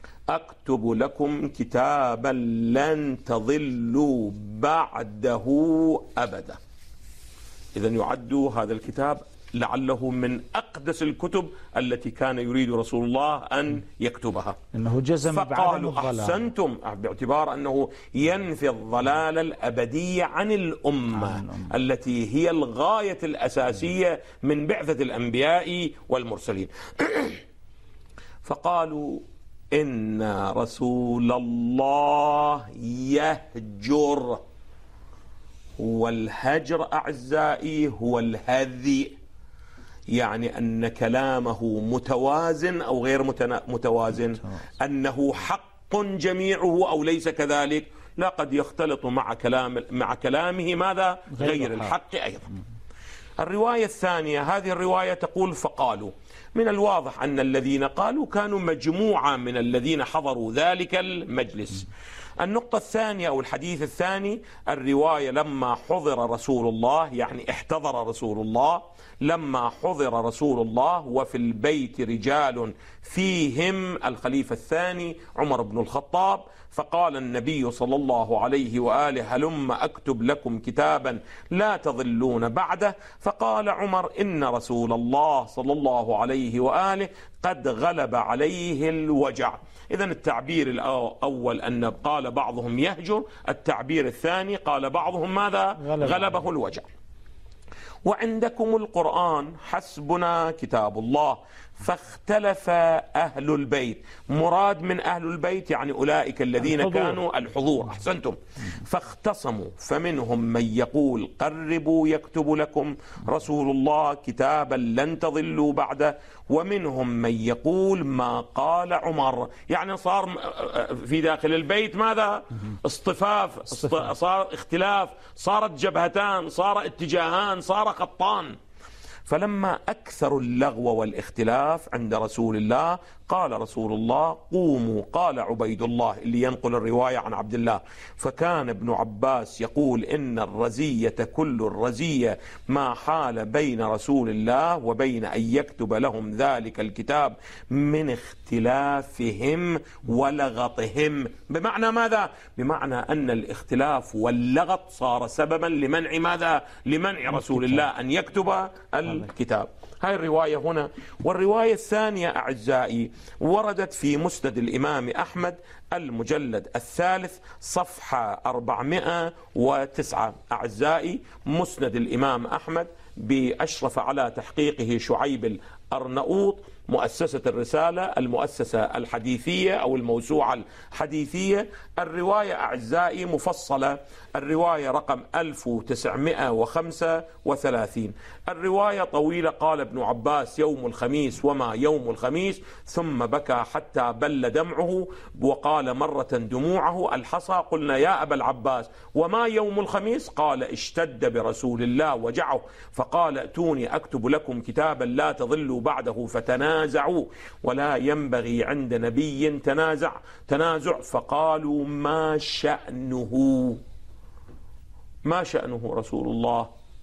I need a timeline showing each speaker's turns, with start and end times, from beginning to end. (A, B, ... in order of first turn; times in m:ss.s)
0:00.3-0:06.6 A
0:07.7-0:14.6 A
0:14.7-0:16.4 B
0:15.2-0:27.4 A
0:21.2-0:21.7 B
0:28.4-0:34.4 A
0:35.8-0:39.1 A
0:40.1-0:52.5 A
0:51.3-0:51.9 B
0:53.4-1:36.9 A
1:35.9-1:36.2 B
1:38.0-2:08.5 A
1:46.8-1:47.2 B
2:09.2-3:33.8 A
3:35.2-3:36.7 A